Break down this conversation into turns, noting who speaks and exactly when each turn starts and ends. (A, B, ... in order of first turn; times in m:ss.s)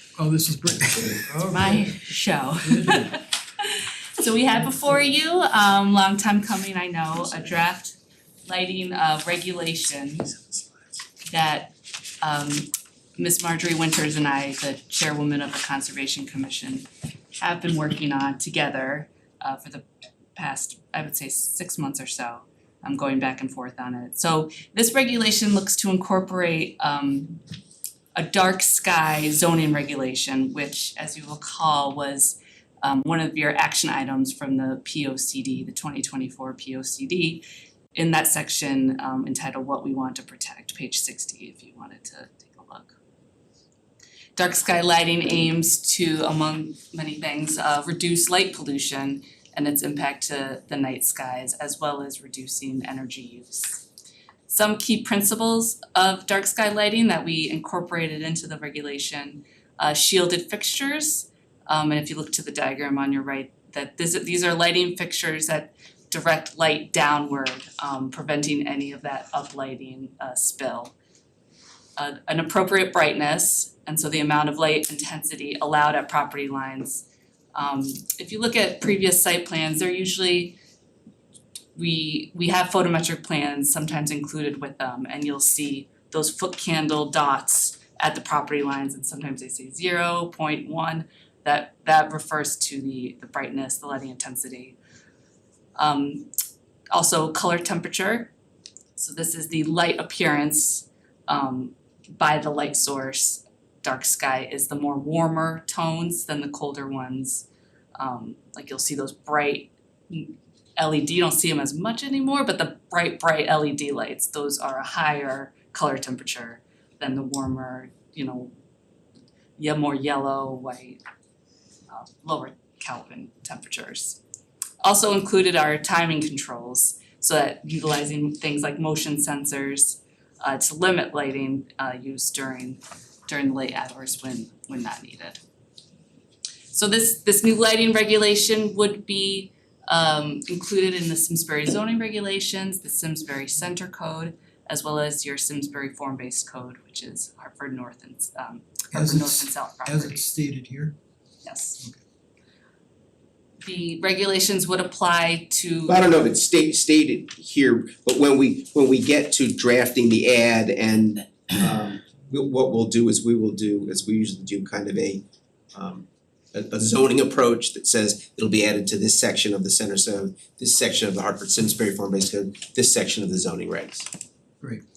0:00.2-0:02.0 A
0:01.0-0:01.2 B
0:01.5-0:10.3 C
0:02.6-0:03.1 A
0:11.3-0:19.8 C
0:20.4-0:27.4 C
0:28.2-0:37.4 C
0:37.9-0:43.0 C
0:44.4-0:53.9 C
0:54.5-1:10.9 C
1:12.0-1:20.6 C
1:21.8-1:34.8 C
1:35.8-1:36.3 C
1:36.9-1:38.3 C
1:39.0-1:47.5 C
1:48.0-1:58.5 C
1:59.6-2:01.0 C
2:01.9-2:04.2 C
2:04.8-2:15.4 C
2:16.7-2:30.3 C
2:28.9-2:31.0 A
2:31.4-2:31.8 C
2:33.6-2:36.1 C
2:35.9-2:45.2 B
2:45.7-2:54.1 B